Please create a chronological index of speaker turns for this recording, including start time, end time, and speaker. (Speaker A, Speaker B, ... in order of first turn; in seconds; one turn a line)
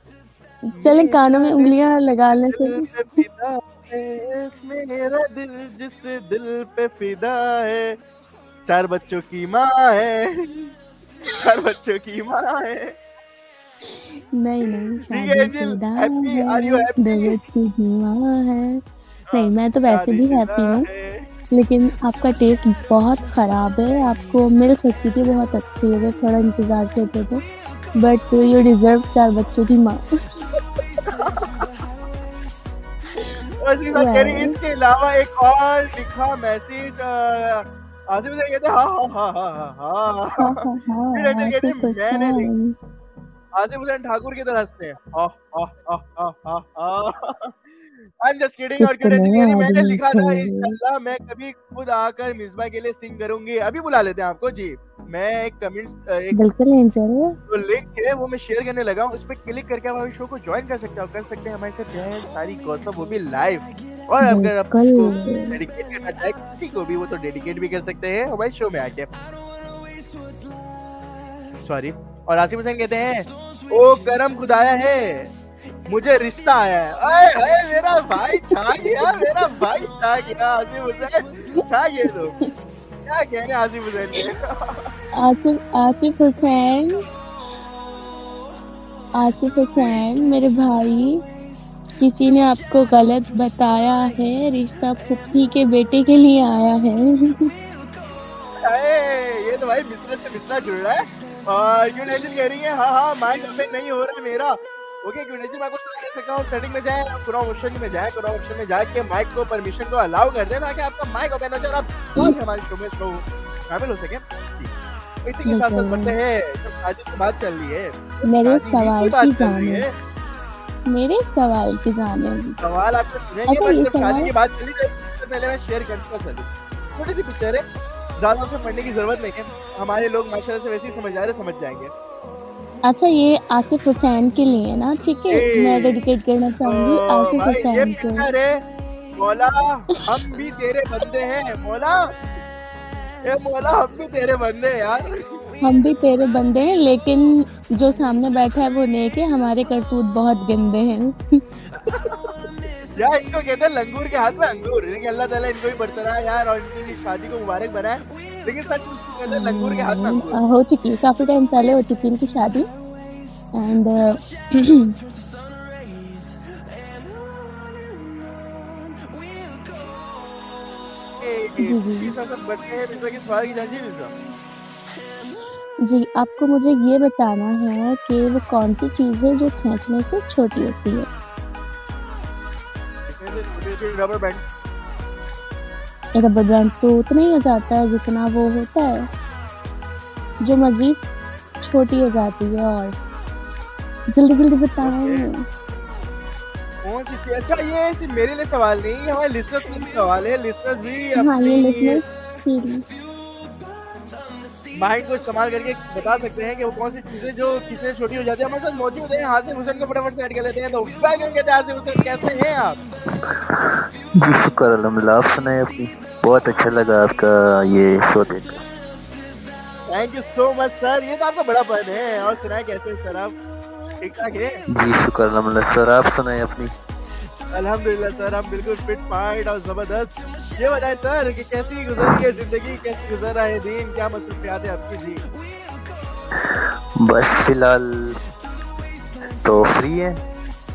Speaker A: 0.7-2.8
Speaker B: 0.8-1.8
Speaker B: 2.3-8.0
Speaker B: 8.7-13.0
Speaker A: 13.9-18.8
Speaker B: 14.7-17.4
Speaker B: 19.3-21.3
Speaker A: 19.3-20.9
Speaker A: 21.5-30.0
Speaker B: 31.0-31.7
Speaker B: 33.6-42.5
Speaker A: 33.9-34.5
Speaker A: 40.4-42.7
Speaker B: 43.5-47.7
Speaker B: 48.2-56.3
Speaker A: 48.8-50.8
Speaker A: 56.3-57.4
Speaker B: 57.5-69.1
Speaker A: 64.2-65.6
Speaker B: 71.6-75.3
Speaker B: 75.9-82.3
Speaker A: 78.1-79.6
Speaker B: 83.0-84.9
Speaker A: 85.2-87.0
Speaker A: 89.2-91.2
Speaker B: 89.8-90.0
Speaker A: 92.0-97.5
Speaker B: 98.6-114.7
Speaker B: 115.2-119.9
Speaker A: 115.5-116.2
Speaker A: 118.2-119.8
Speaker A: 120.9-122.6
Speaker B: 122.6-127.6
Speaker A: 123.5-124.3
Speaker B: 128.2-131.9
Speaker A: 132.9-138.3
Speaker B: 135.3-136.0
Speaker B: 136.6-138.6
Speaker B: 139.2-142.1
Speaker B: 143.2-145.4
Speaker A: 145.6-151.4
Speaker B: 152.9-160.4
Speaker A: 159.3-162.7
Speaker A: 163.5-164.9
Speaker B: 171.2-174.1
Speaker A: 171.6-172.1
Speaker A: 175.8-181.1
Speaker B: 183.1-184.4
Speaker A: 186.2-189.1
Speaker A: 190.4-191.0
Speaker A: 191.6-192.9
Speaker A: 194.1-195.4
Speaker B: 194.8-195.3
Speaker B: 196.8-202.0
Speaker A: 201.2-202.8
Speaker B: 204.8-212.8
Speaker C: 213.5-218.6
Speaker B: 219.9-223.3
Speaker B: 224.0-224.6
Speaker C: 224.8-226.7
Speaker B: 227.5-235.2
Speaker C: 236.4-238.1
Speaker C: 239.4-240.2